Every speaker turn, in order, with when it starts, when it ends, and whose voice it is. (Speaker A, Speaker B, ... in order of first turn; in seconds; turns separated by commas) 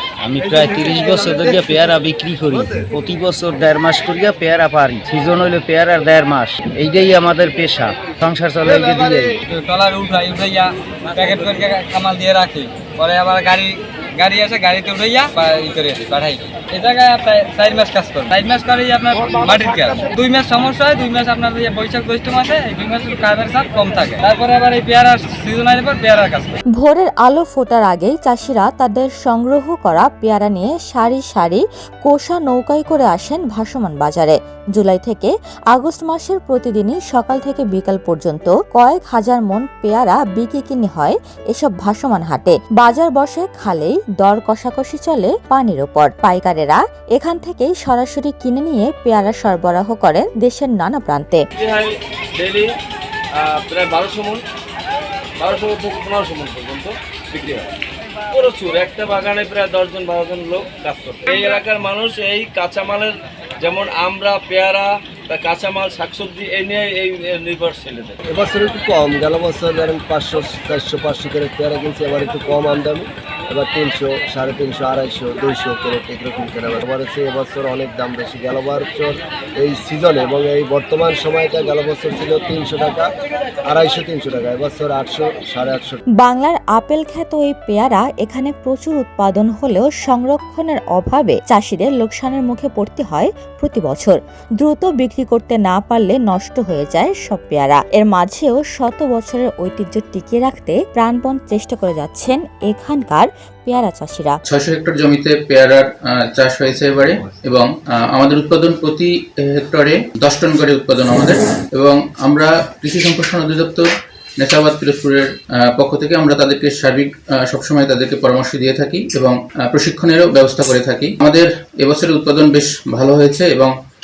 Speaker A: 0.2-9.3, Speaker B: 0.4-1.9, Speaker B: 2.5-2.9, Speaker B: 8.6-9.3, Speaker C: 9.5-26.6, Speaker D: 11.1-11.6, Speaker D: 19.8-20.1, Speaker E: 26.8-51.4, Speaker D: 51.6-52.7, Speaker D: 53.4-54.4, Speaker D: 55.4-57.7, Speaker D: 58.3-68.2, Speaker B: 68.3-83.1, Speaker B: 83.7-86.0, Speaker E: 86.2-104.4, Speaker F: 104.5-113.9, Speaker F: 114.4-123.7